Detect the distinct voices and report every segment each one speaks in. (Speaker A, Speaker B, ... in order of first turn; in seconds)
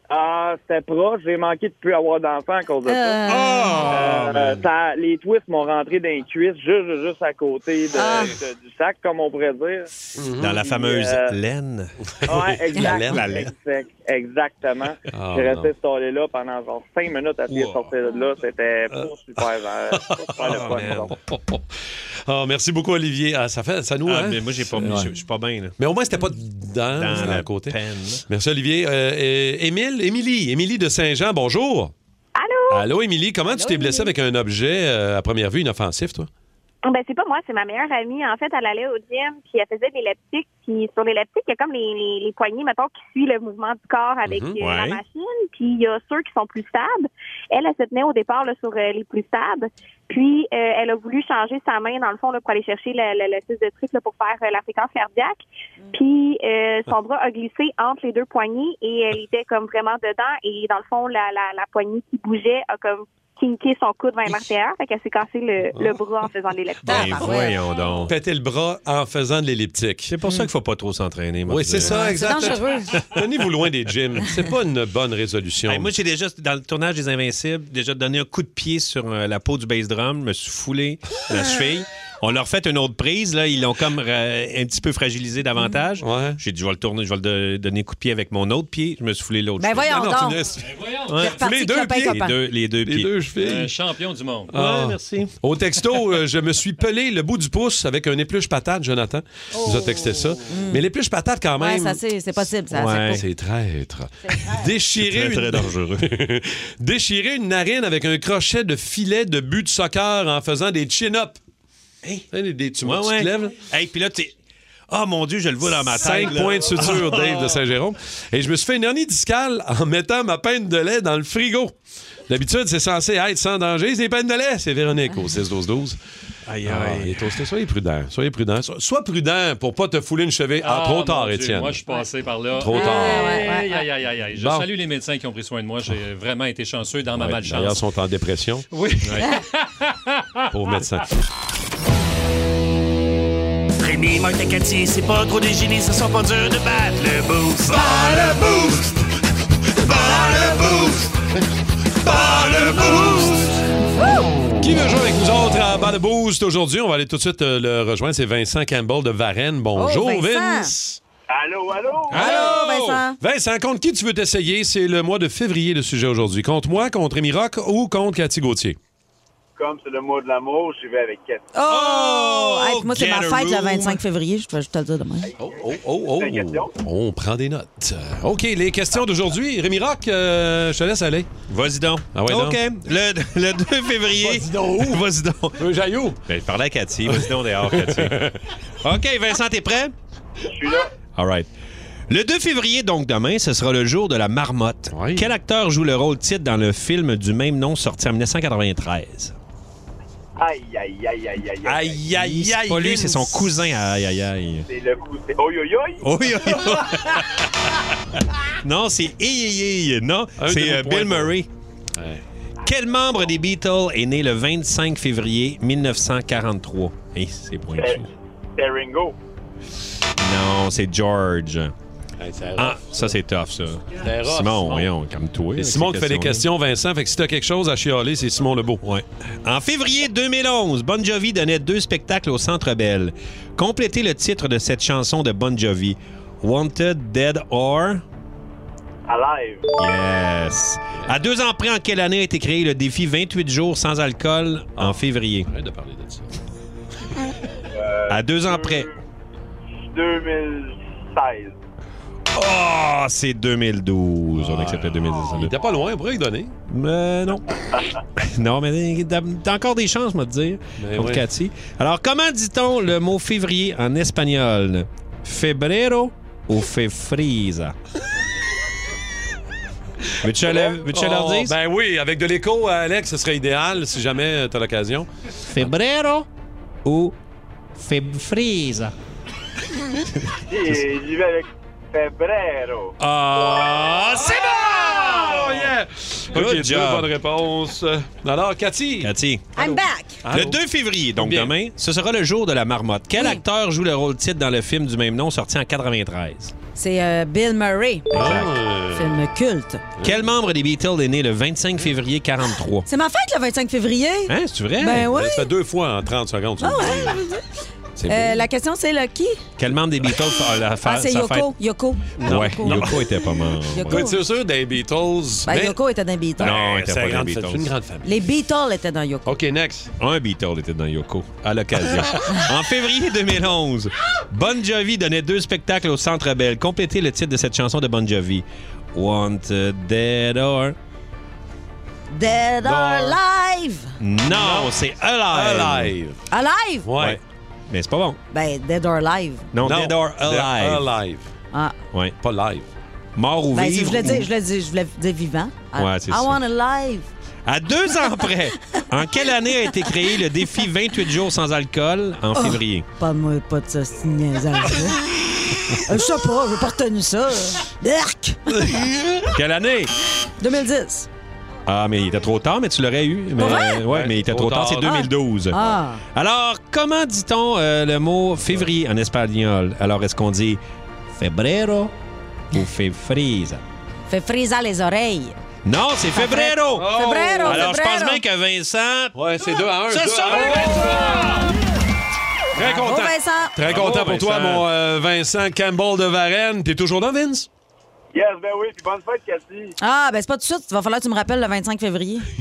Speaker A: 0.1-3.2, 3.9-9.9, 10.6-11.3, 12.3-21.1
Speaker B: 2.9-3.9, 7.9-8.3, 33.5-34.1, 66.9-67.6, 70.2-70.5, 71.8-73.0, 89.6-90.4, 91.2-92.4, 100.5-100.8, 101.6-103.2, 104.2-104.7, 132.7-133.8, 147.7-148.6, 149.9-150.8, 154.0-154.5, 159.8-160.7, 162.1-163.2, 171.5-175.3, 289.6-290.2, 293.2-293.4, 296.8-298.4, 298.9-299.8, 302.9-305.5, 306.6-307.4, 308.1-309.4, 310.8-314.1, 315.5-316.6, 318.1-319.4, 332.1-333.9, 336.3-336.9, 338.3-339.5, 343.5-347.1, 352.4-358.8, 360.4-361.1, 363.4-363.8, 364.9-366.0, 374.1-375.4, 376.1-378.2, 382.6-383.6, 389.8-392.3
Speaker C: 3.3-4.7, 10.3-11.9, 12.8-13.5, 17.5-17.9, 20.4-21.1, 24.1-25.8, 27.0-28.2, 44.6-45.0, 66.8-68.1, 70.1-72.5, 75.7-90.1, 91.1-91.3, 92.1-93.1, 94.5-95.3, 102.7-103.2, 105.0-106.1, 112.8-114.3, 114.9-117.5, 126.5-127.3, 139.0-139.3, 162.1-163.0, 171.7-174.0, 181.5-185.6, 186.3-188.2, 188.8-189.9, 191.2-191.5, 192.1-199.3, 201.8-204.7, 206.0-207.6, 208.6-211.5, 212.6-218.1, 220.2-221.7, 222.6-226.4, 228.8-238.0, 239.8-245.5, 248.1-248.9, 252.3-255.5, 256.7-257.6, 258.2-267.8, 270.2-271.6, 275.5-276.3, 276.9-277.1, 277.8-278.9, 283.0-285.4, 286.3-287.1, 289.0-289.5, 290.3-296.5, 298.1-298.6, 300.0-302.9, 304.3-305.1, 309.6-311.6, 312.2-314.1, 316.4-317.7, 320.0-330.8, 334.0-335.9, 337.0-338.2, 339.5-340.9, 343.2-344.3, 345.8-346.4, 347.5-352.9, 359.3-359.9, 361.7-365.6, 366.1-370.6, 371.2-371.9, 372.5-373.6, 375.7-379.1, 379.9-381.5, 383.7-384.6
Speaker D: 10.2-10.6, 12.2-13.4, 15.1-15.7, 20.0-21.6, 22.2-25.1, 25.8-27.8, 28.3-31.9, 32.7-36.3, 44.3-44.6, 68.1-70.1, 71.5-75.9, 86.0-86.4, 89.9-92.2, 92.8-93.7, 94.5-102.0, 103.1-111.4, 112.3-113.6, 115.7-121.8, 122.3-126.0, 126.7-131.8, 132.6-133.4, 134.3-134.7, 137.2-138.7, 140.5-141.1, 152.0-153.5, 154.6-161.0, 163.2-168.8, 175.4-181.3, 182.1-182.6, 184.2-185.0, 185.6-186.2, 187.1-188.4, 194.9-195.3, 201.7-203.6, 210.4-211.3, 211.9-212.2, 222.2-223.2, 223.9-224.9, 225.6-228.8, 244.8-246.3, 254.3-256.5, 260.8-261.2, 270.7-275.7, 284.1-289.1, 289.7-290.6, 291.2-291.5, 298.1-299.2, 304.9-307.2, 308.0-308.4, 312.2-315.8, 316.4-318.2, 319.3-319.9, 332.6-333.2, 334.3-334.7, 335.3-336.2, 336.9-337.2, 339.6-341.3, 342.2-342.7, 358.5-359.1, 363.4-365.1, 376.7-377.7, 379.1-381.5, 382.5-387.5
Speaker E: 32.4-32.9, 36.8-67.6
Speaker F: 90.7-91.1, 93.4-94.5, 130.6-137.8, 138.7-140.4
Speaker G: 143.8-148.2, 149.9-151.0, 152.1-153.4
Speaker H: 161.3-162.4, 169.6-171.5, 175.2-176.7, 190.5-190.9, 200.4-202.1, 204.7-206.1, 217.8-218.1, 218.6-219.2, 239.1-239.7, 247.7-248.9, 249.9-251.6, 255.1-255.8, 280.5-282.9, 388.1-389.8